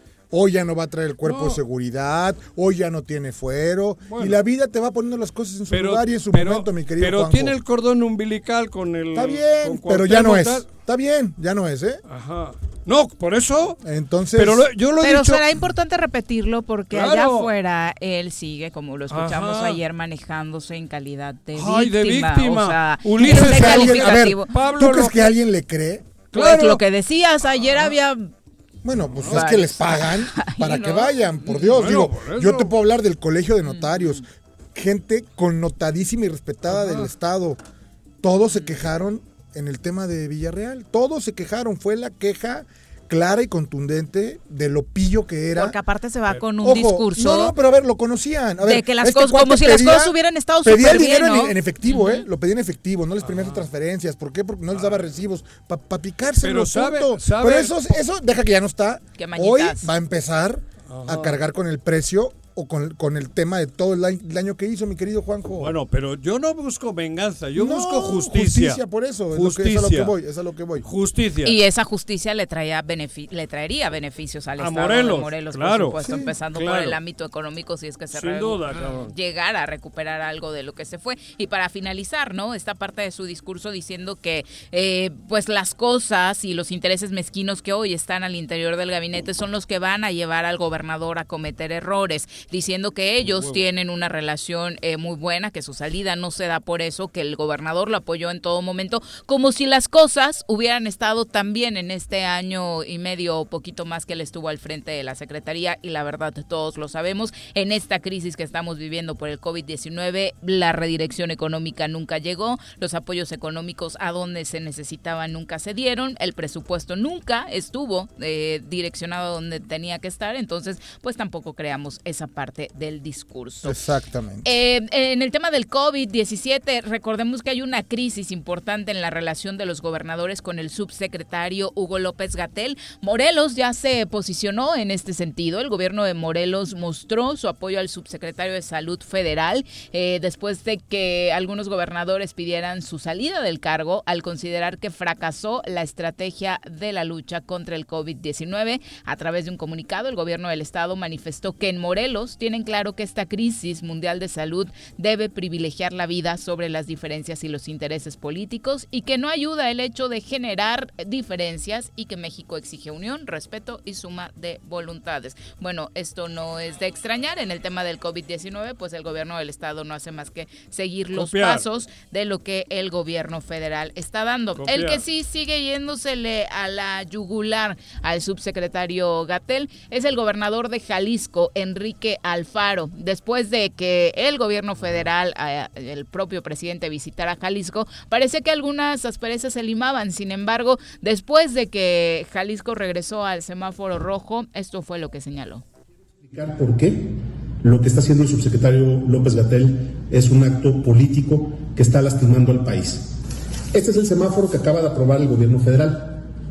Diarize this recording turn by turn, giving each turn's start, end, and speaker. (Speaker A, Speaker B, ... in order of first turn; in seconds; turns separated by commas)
Speaker A: 0.3-7.6, Speaker B: 1.2-1.6, Speaker B: 4.1-4.3, Speaker B: 5.7-10.7, Speaker A: 9.1-12.0, Speaker B: 12.1-13.8, Speaker A: 13.8-14.7, Speaker B: 14.3-15.4, Speaker C: 15.0-24.5, Speaker B: 16.9-17.5, Speaker B: 19.1-19.8, Speaker B: 21.5-25.3, Speaker A: 23.2-26.1, Speaker B: 26.3-26.8, Speaker C: 26.3-28.3, Speaker A: 28.8-34.2, Speaker B: 29.2-29.4, Speaker C: 29.3-31.7, Speaker B: 31.7-32.7, Speaker C: 33.7-34.2, Speaker A: 34.7-37.6, Speaker B: 36.7-37.1, Speaker A: 38.2-45.8, Speaker C: 45.5-47.5, Speaker A: 46.6-65.7, Speaker C: 48.6-52.2, Speaker B: 53.2-53.6, Speaker B: 54.7-55.0, Speaker B: 56.4-57.8, Speaker C: 59.2-59.9, Speaker B: 60.9-61.4, Speaker B: 65.6-68.8, Speaker A: 67.5-70.8, Speaker B: 69.3-70.1, Speaker B: 70.8-71.6, Speaker C: 71.4-123.8, Speaker B: 74.6-76.0, Speaker A: 76.0-76.3, Speaker B: 76.5-77.0, Speaker B: 78.1-79.1, Speaker B: 93.2-93.6, Speaker A: 123.6-124.5, Speaker C: 124.4-195.6, Speaker B: 171.1-171.6, Speaker B: 174.6-175.0, Speaker D: 196.3-203.1, Speaker D: 203.7-206.3